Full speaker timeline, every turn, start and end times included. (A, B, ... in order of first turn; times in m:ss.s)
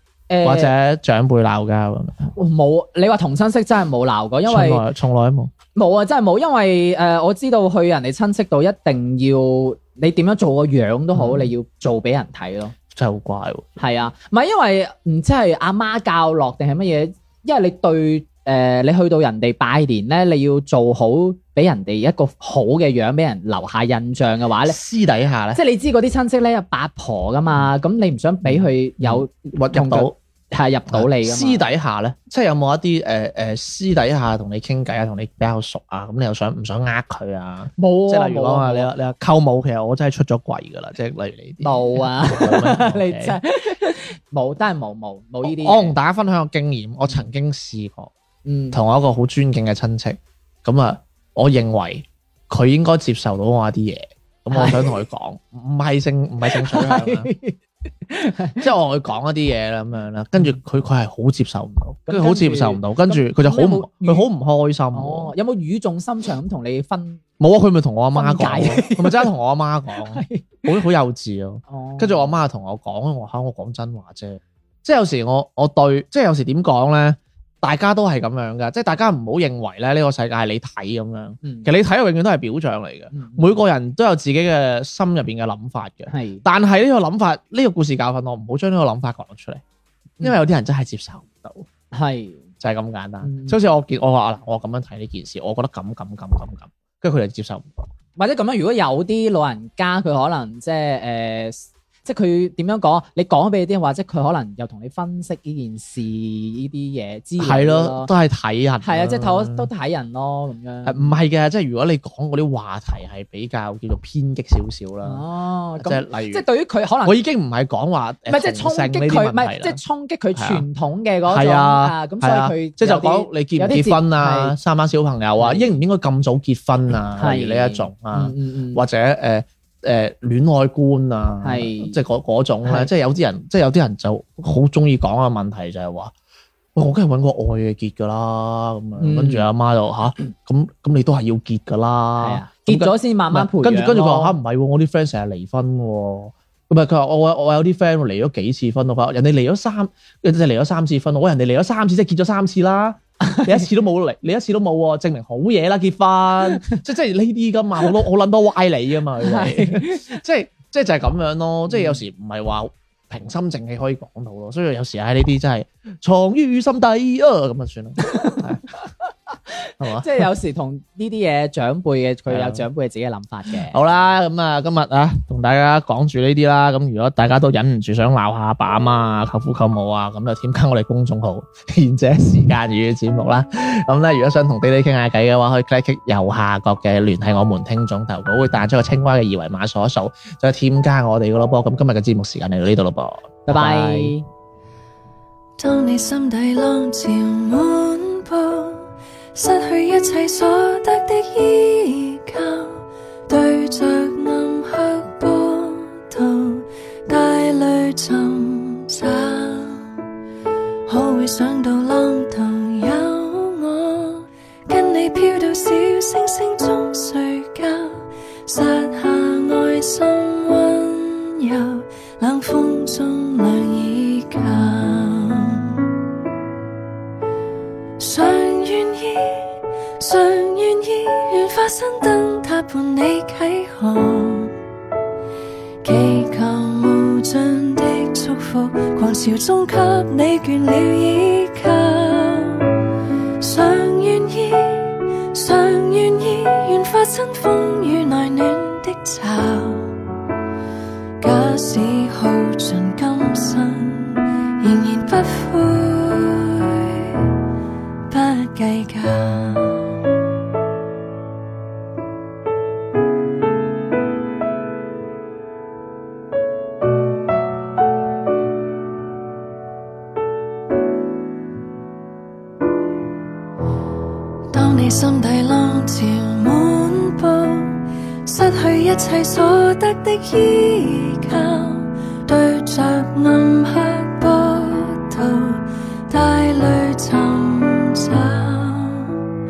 0:00.3-0:00.7 A
0:00.4-0:02.3 B
0:02.3-0:04.8 A
0:04.4-0:05.5 B
0:05.7-0:12.7 A
0:11.1-0:11.5 B
0:12.9-0:13.7 B
0:13.8-0:24.8 A
0:24.6-0:25.6 B
0:25.5-0:31.7 A
0:28.4-0:30.1 B
0:30.9-0:43.4 B
0:37.8-0:38.9 A
0:41.6-0:46.0 A
0:45.4-0:48.1 B
0:48.4-0:48.8 A
0:48.7-0:57.3 B
0:54.5-0:55.0 A
0:56.5-0:58.6 A
0:58.6-1:05.3 B
1:02.1-1:04.3 A
1:04.9-1:07.2 A
1:07.4-1:29.6 B
1:08.1-1:09.3 A
1:10.0-1:10.7 A
1:11.7-1:12.3 A
1:21.4-1:21.7 A
1:23.1-1:23.6 A
1:26.1-1:26.4 A
1:30.2-1:31.7 B
1:31.9-1:32.4 A
1:32.6-1:37.8 B
1:33.2-1:33.6 A
1:38.2-1:48.1 A
1:47.4-1:49.7 B
1:48.8-1:51.1 A
1:50.8-1:55.2 B
1:55.0-1:57.2 A
1:55.8-1:56.4 B
1:57.0-1:59.8 B
1:58.3-2:04.5 A
2:00.4-2:00.6 B
2:01.3-2:16.1 B
2:05.4-2:05.7 A
2:07.2-2:08.8 A
2:11.4-2:12.0 A
2:16.7-2:48.6 B
2:19.0-2:19.5 A
2:22.2-2:24.4 A
2:33.2-2:33.6 A
2:39.2-2:40.2 A
2:41.7-2:42.0 A
2:48.0-2:48.4 A
2:49.8-2:50.3 B
2:49.8-2:53.8 A
2:52.3-2:52.6 B
2:53.7-3:14.1 B
3:13.5-3:14.2 A
3:15.6-3:29.9 C
3:30.9-3:45.8 C
3:48.0-3:54.6 C
3:55.8-4:02.7 C
4:03.4-4:09.9 C
4:11.2-4:17.1 C
4:18.1-4:19.9 C
4:34.5-4:49.2 C